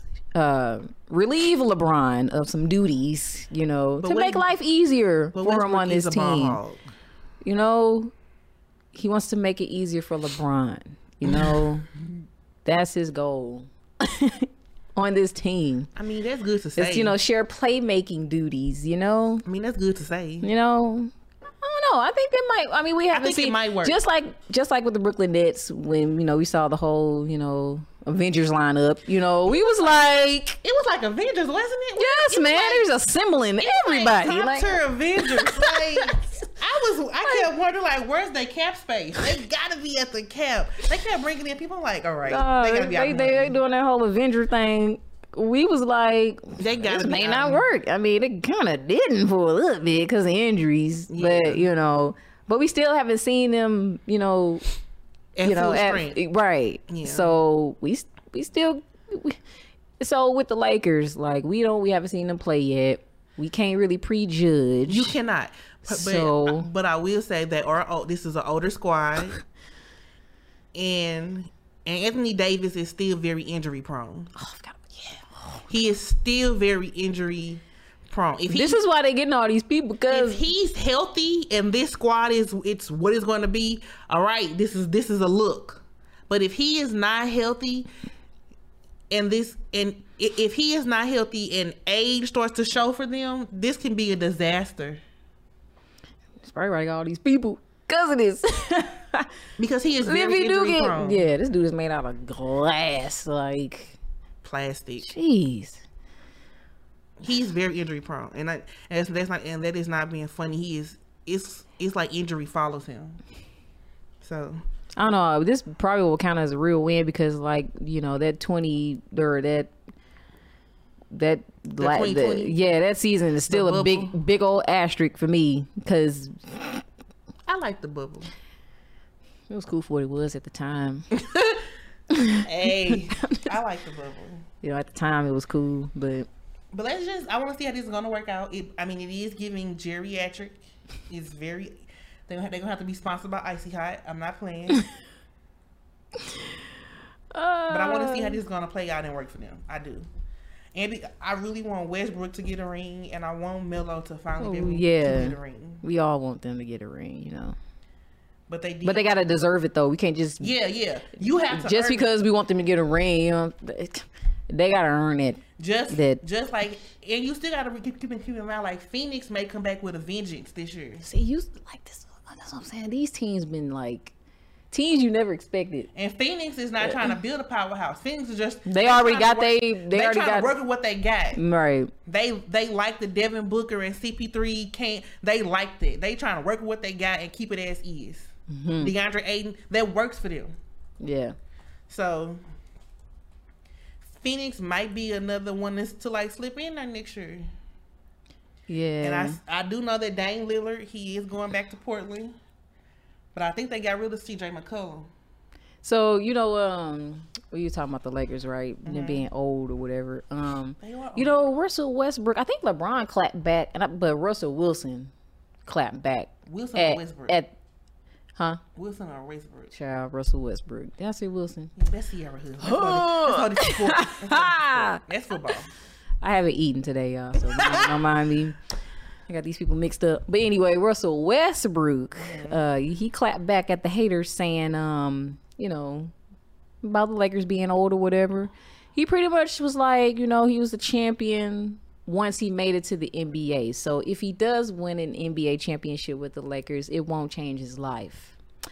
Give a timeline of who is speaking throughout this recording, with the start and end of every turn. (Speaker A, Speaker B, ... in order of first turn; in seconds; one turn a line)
Speaker A: 0.3-6.6
Speaker B: 4.0-4.5
Speaker B: 5.3-6.8
Speaker A: 7.4-8.1
Speaker A: 8.9-11.8
Speaker B: 11.2-11.6
Speaker A: 12.6-15.9
Speaker B: 15.9-17.2
Speaker A: 16.8-19.4
Speaker B: 19.4-20.5
Speaker A: 20.4-21.1
Speaker A: 21.6-30.6
Speaker B: 23.1-24.0
Speaker B: 29.5-32.9
Speaker A: 31.9-36.2
Speaker B: 33.6-43.6
Speaker A: 42.2-54.6
Speaker B: 46.6-47.6
Speaker B: 51.1-51.7
Speaker B: 55.4-56.2
Speaker A: 55.4-59.4
Speaker B: 56.9-57.3
Speaker A: 60.0-65.1
Speaker B: 64.9-69.4
Speaker A: 65.9-66.7
Speaker B: 70.7-74.3
Speaker A: 74.3-75.6
Speaker B: 75.7-78.8
Speaker A: 78.5-80.4
Speaker B: 80.1-87.9
Speaker B: 89.1-95.0
Speaker A: 96.4-99.3
Speaker B: 99.6-101.3
Speaker A: 100.0-104.0
Speaker B: 104.4-105.1
Speaker A: 105.0-105.8
Speaker B: 107.2-113.2
Speaker B: 114.2-114.6
Speaker A: 115.0-119.7
Speaker A: 121.1-126.8
Speaker B: 121.8-122.5
Speaker B: 123.5-124.2
Speaker B: 127.5-128.3
Speaker A: 129.5-131.1
Speaker B: 131.2-131.6
Speaker A: 132.1-133.5
Speaker B: 132.4-134.4
Speaker A: 134.6-136.3
Speaker B: 136.7-144.8
Speaker A: 147.3-148.4
Speaker B: 147.7-150.1
Speaker B: 150.7-155.8
Speaker A: 154.4-157.6
Speaker B: 158.5-159.2
Speaker A: 158.8-160.5
Speaker B: 160.4-162.1
Speaker A: 161.4-166.2
Speaker B: 165.6-171.0
Speaker A: 171.0-174.1
Speaker A: 174.7-175.9
Speaker B: 175.9-181.4
Speaker A: 176.8-177.1
Speaker A: 178.7-180.5
Speaker A: 181.3-181.9
Speaker B: 182.1-190.5
Speaker A: 188.5-188.9
Speaker A: 191.0-191.3
Speaker B: 191.9-192.4
Speaker B: 194.0-197.5
Speaker A: 198.7-199.4
Speaker B: 199.0-202.3
Speaker B: 203.3-205.1
Speaker A: 205.8-215.1
Speaker B: 208.8-209.3
Speaker B: 210.8-211.4
Speaker A: 215.6-217.5
Speaker B: 216.4-217.4
Speaker B: 218.7-219.7
Speaker A: 219.7-221.7
Speaker B: 221.8-225.7
Speaker A: 222.6-225.0
Speaker A: 226.2-228.6
Speaker B: 227.4-228.0
Speaker A: 229.3-236.1
Speaker B: 232.2-232.6
Speaker A: 236.8-248.4